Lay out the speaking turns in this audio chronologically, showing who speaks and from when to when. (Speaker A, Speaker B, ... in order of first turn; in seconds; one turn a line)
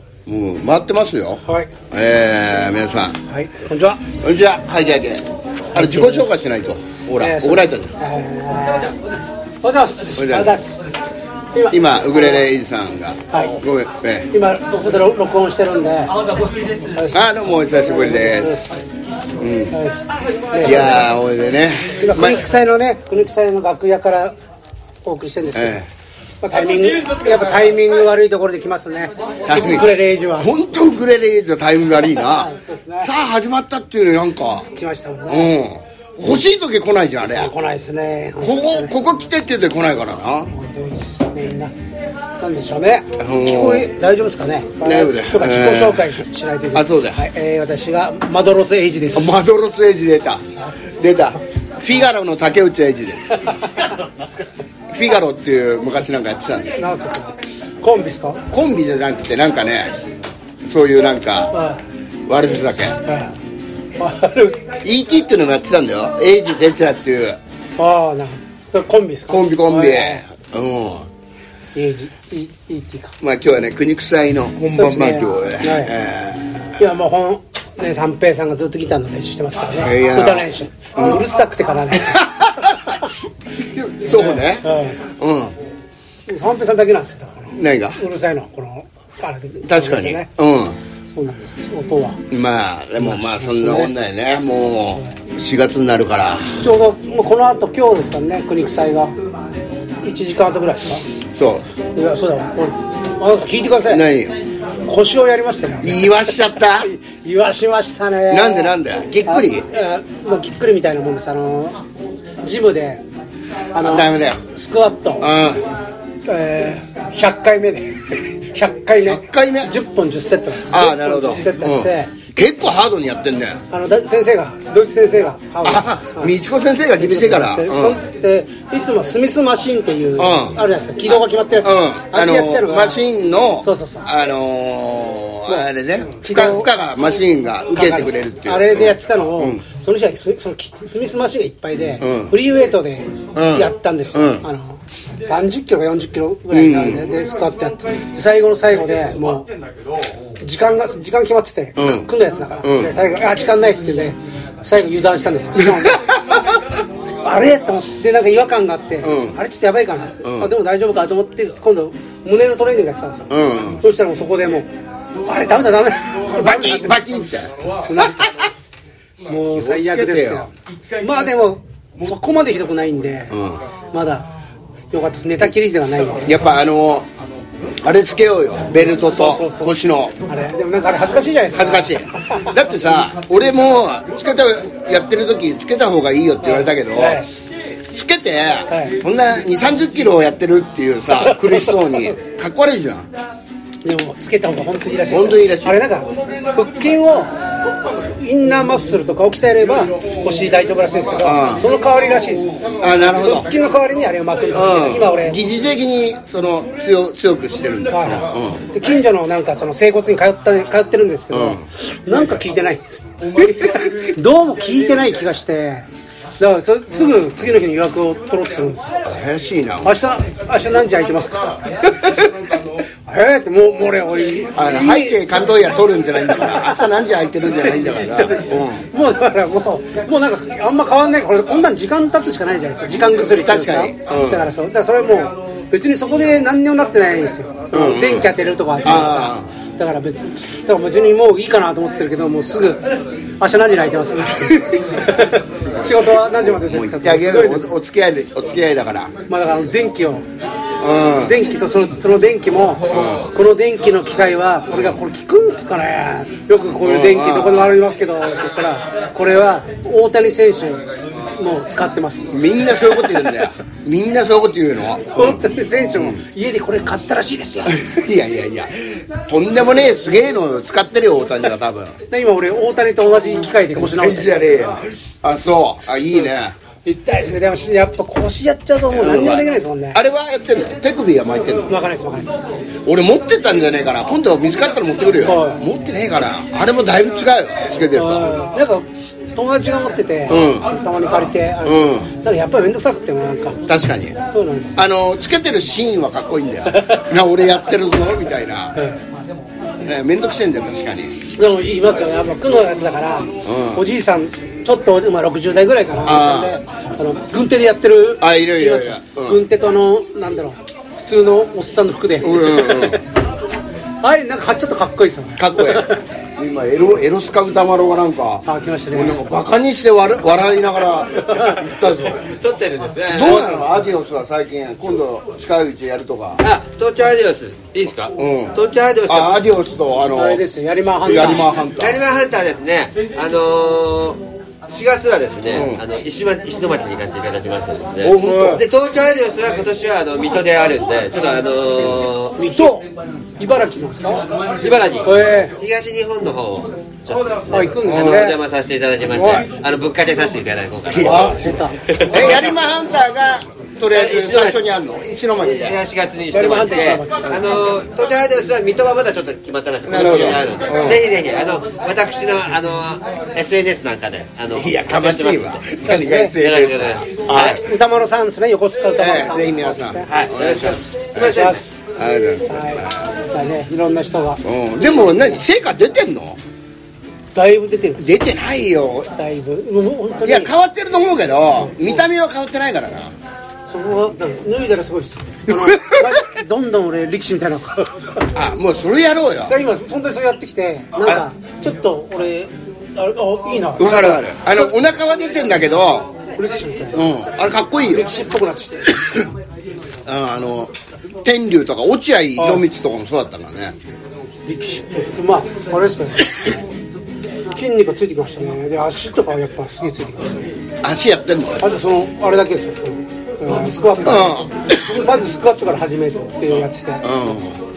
Speaker A: 0.2-3.2
Speaker B: 3.3-4.0
Speaker A: 4.2-7.9
Speaker B: 5.7-6.3
Speaker B: 7.2-8.9
Speaker B: 9.6-10.8
Speaker A: 10.2-10.6
Speaker B: 11.5-12.4
Speaker A: 11.7-14.3
Speaker B: 13.3-13.6
Speaker B: 14.3-16.2
Speaker B: 16.7-18.8
Speaker A: 17.1-18.7
Speaker A: 19.4-19.7
Speaker B: 19.7-21.0
Speaker A: 20.6-22.4
Speaker B: 21.9-24.3
Speaker B: 25.0-25.8
Speaker A: 25.5-25.9
Speaker B: 26.4-30.5
Speaker A: 29.5-34.6
Speaker B: 32.2-33.1
Speaker B: 34.5-35.5
Speaker A: 35.3-37.5
Speaker B: 37.3-39.0
Speaker A: 38.4-40.5
Speaker B: 40.5-41.7
Speaker B: 42.4-49.4
Speaker A: 43.2-43.9
Speaker A: 44.8-46.1
Speaker A: 46.7-47.2
Speaker A: 49.1-50.4
Speaker A: 51.0-53.7
Speaker A: 54.9-56.8
Speaker B: 56.8-58.4
Speaker A: 58.5-59.9
Speaker A: 60.6-61.5
Speaker B: 61.5-61.8
Speaker A: 62.3-63.0
Speaker B: 63.0-63.3
Speaker B: 64.0-64.7
Speaker A: 64.8-67.4
Speaker B: 67.8-70.2
Speaker A: 69.3-71.1
Speaker B: 71.7-73.2
Speaker A: 73.2-76.8
Speaker B: 74.7-75.9
Speaker B: 76.8-82.3
Speaker A: 79.7-81.3
Speaker A: 82.0-83.0
Speaker A: 83.6-85.5
Speaker B: 84.0-85.0
Speaker B: 86.2-90.3
Speaker A: 87.5-88.0
Speaker A: 89.7-90.8
Speaker B: 91.1-92.2
Speaker A: 92.3-96.6
Speaker B: 93.0-93.9
Speaker B: 96.6-99.1
Speaker B: 100.0-101.0
Speaker A: 101.3-101.6
Speaker B: 101.9-104.0
Speaker A: 103.8-104.3
Speaker B: 104.8-108.8
Speaker A: 105.8-106.9
Speaker A: 108.3-109.6
Speaker B: 109.3-111.8
Speaker B: 112.4-113.0
Speaker B: 113.7-115.3
Speaker A: 113.8-114.4
Speaker A: 115.2-115.6
Speaker B: 116.2-122.1
Speaker A: 119.0-119.7
Speaker A: 120.6-123.6
Speaker B: 123.7-126.3
Speaker A: 125.6-128.0
Speaker B: 127.0-133.0
Speaker A: 130.2-139.6
Speaker B: 133.6-134.1
Speaker B: 135.5-136.8
Speaker B: 137.7-149.5
Speaker A: 142.0-142.3
Speaker A: 143.3-144.4
Speaker A: 146.5-147.1
Speaker B: 150.4-156.2
Speaker A: 151.8-152.1
Speaker A: 152.6-152.9
Speaker A: 155.6-156.4
Speaker B: 157.2-164.7
Speaker A: 159.0-159.4
Speaker A: 160.2-160.5
Speaker A: 163.3-163.8
Speaker B: 165.2-167.1
Speaker A: 166.3-168.4
Speaker B: 167.8-168.3
Speaker B: 169.2-173.3
Speaker A: 169.5-170.5
Speaker A: 173.3-173.6
Speaker B: 173.9-174.3
Speaker B: 174.9-176.4
Speaker A: 176.3-177.1
Speaker A: 177.8-180.2
Speaker B: 179.0-182.4
Speaker A: 181.5-187.2
Speaker B: 186.4-187.3
Speaker A: 187.9-193.1
Speaker B: 188.7-189.0
Speaker B: 191.1-192.1
Speaker B: 193.8-197.4
Speaker A: 195.1-195.8
Speaker B: 197.9-205.4
Speaker A: 201.2-201.7
Speaker A: 202.8-203.5
Speaker A: 204.5-208.6
Speaker B: 207.9-215.8
Speaker A: 211.3-211.6
Speaker B: 216.4-219.0
Speaker A: 219.0-219.9
Speaker B: 219.8-221.7
Speaker B: 223.1-225.2
Speaker A: 224.5-228.8
Speaker B: 226.3-226.8
Speaker B: 227.7-247.7
Speaker A: 232.9-234.5
Speaker A: 237.7-239.5
Speaker A: 246.5-249.1
Speaker B: 249.3-250.2
Speaker A: 250.8-251.4
Speaker B: 251.2-262.3
Speaker A: 252.9-253.3
Speaker A: 256.8-257.8
Speaker A: 262.3-266.2
Speaker B: 265.1-267.8
Speaker A: 267.6-272.0
Speaker B: 272.1-274.5
Speaker A: 273.8-276.5
Speaker B: 276.8-280.0
Speaker A: 278.9-281.7
Speaker B: 281.7-282.3
Speaker A: 282.8-288.4
Speaker B: 285.2-285.6
Speaker B: 287.9-293.6
Speaker A: 290.3-290.7
Speaker A: 291.6-292.1
Speaker A: 293.6-294.2
Speaker B: 294.3-294.8
Speaker A: 294.8-298.8
Speaker A: 299.8-301.2
Speaker B: 301.3-313.0
Speaker A: 303.4-303.8
Speaker A: 306.0-306.6
Speaker A: 308.2-309.4
Speaker A: 312.2-313.0
Speaker B: 314.0-316.0
Speaker A: 315.4-322.2
Speaker B: 318.4-319.2
Speaker B: 321.3-321.6
Speaker C: 322.1-323.6
Speaker A: 323.1-326.4
Speaker B: 323.3-323.6
Speaker C: 326.4-329.4
Speaker A: 328.1-328.6
Speaker A: 329.1-330.4
Speaker B: 330.1-331.5
Speaker A: 331.0-332.0
Speaker C: 331.8-342.7
Speaker A: 335.5-335.8
Speaker A: 338.0-338.6
Speaker B: 338.2-338.6
Speaker B: 342.4-342.9
Speaker B: 343.4-344.2
Speaker C: 344.6-352.5
Speaker B: 345.0-345.5
Speaker B: 347.5-348.4
Speaker A: 347.9-348.2
Speaker B: 349.1-349.5
Speaker A: 350.9-351.3
Speaker B: 350.9-351.8
Speaker A: 352.1-355.8
Speaker C: 353.9-354.6
Speaker C: 355.4-367.6
Speaker B: 356.3-357.6
Speaker A: 359.9-361.0
Speaker A: 364.5-367.6
Speaker B: 365.8-366.3
Speaker B: 367.5-370.1
Speaker A: 368.9-372.9
Speaker C: 370.1-371.6
Speaker B: 371.3-371.7
Speaker B: 372.5-375.3
Speaker A: 374.4-376.4
Speaker B: 377.3-378.2
Speaker A: 378.0-379.1
Speaker B: 379.1-380.5
Speaker A: 380.2-383.1
Speaker B: 381.6-382.0
Speaker B: 383.7-388.2
Speaker A: 385.5-386.1
Speaker A: 388.3-389.5
Speaker B: 389.5-394.2
Speaker A: 393.8-396.1
Speaker B: 396.3-397.1
Speaker A: 396.9-398.1
Speaker B: 397.8-399.1
Speaker A: 400.0-400.7
Speaker A: 401.2-403.8
Speaker B: 402.4-402.6
Speaker B: 404.4-406.3
Speaker B: 407.5-410.5
Speaker A: 410.8-411.7
Speaker B: 411.6-417.2
Speaker A: 414.0-415.0
Speaker A: 417.0-417.6